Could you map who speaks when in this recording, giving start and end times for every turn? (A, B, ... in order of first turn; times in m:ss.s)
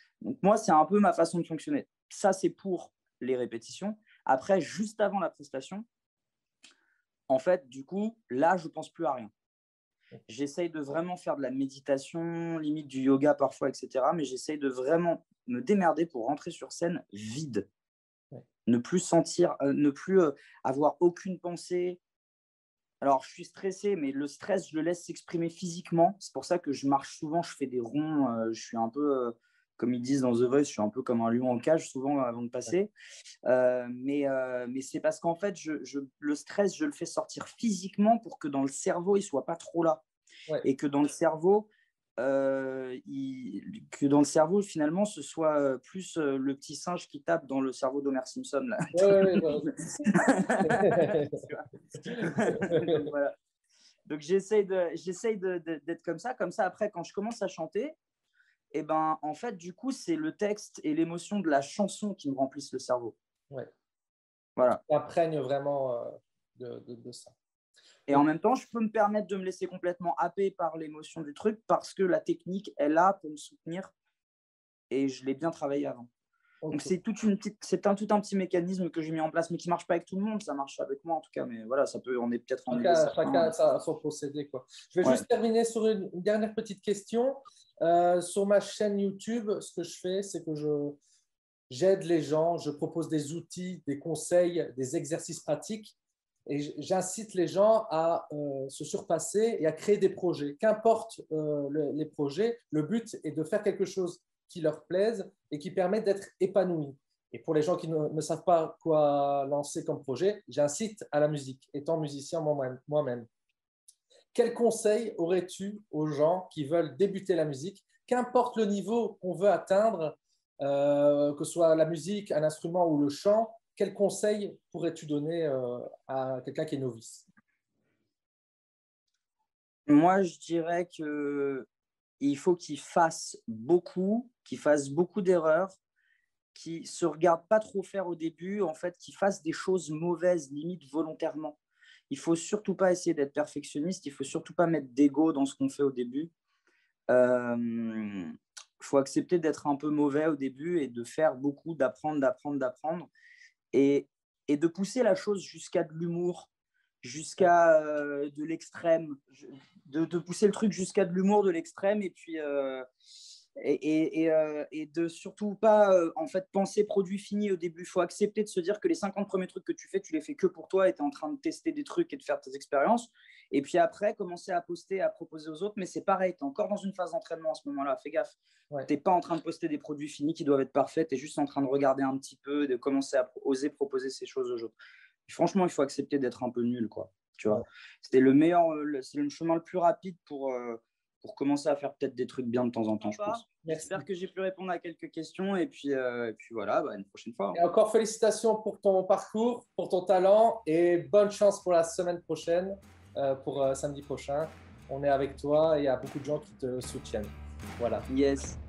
0:00.2-0:05.8 A
0:07.3-0:09.3 A
0:10.3-0:17.7 A
0:18.6-0:22.0 A
0:23.0-0:32.9 A
0:33.5-0:40.0 A
0:40.6-0:53.3 A
0:48.9-0:50.0 B
0:50.6-0:51.4 B
0:52.0-0:53.0 B
0:54.1-0:58.0 A
0:58.7-1:03.1 A
1:04.6-1:04.8 A
1:04.9-1:07.3 B
1:08.1-1:13.9 A
1:14.9-1:16.1 A
1:16.6-1:16.9 B
1:16.7-1:23.5 A
1:22.7-1:31.0 B
1:31.7-1:35.9 B
1:36.5-1:53.3 B
1:54.3-2:07.2 B
2:09.9-2:11.7 A
2:12.2-2:15.8 A
2:16.5-2:21.6 A
2:22.1-2:26.3 A
2:27.1-2:33.1 A
2:33.7-2:36.5 A
2:37.0-2:42.8 A
2:43.6-3:04.8 A
3:05.3-3:17.6 A
3:13.5-3:14.0 B
3:17.5-3:28.1 B
3:28.1-3:28.6 A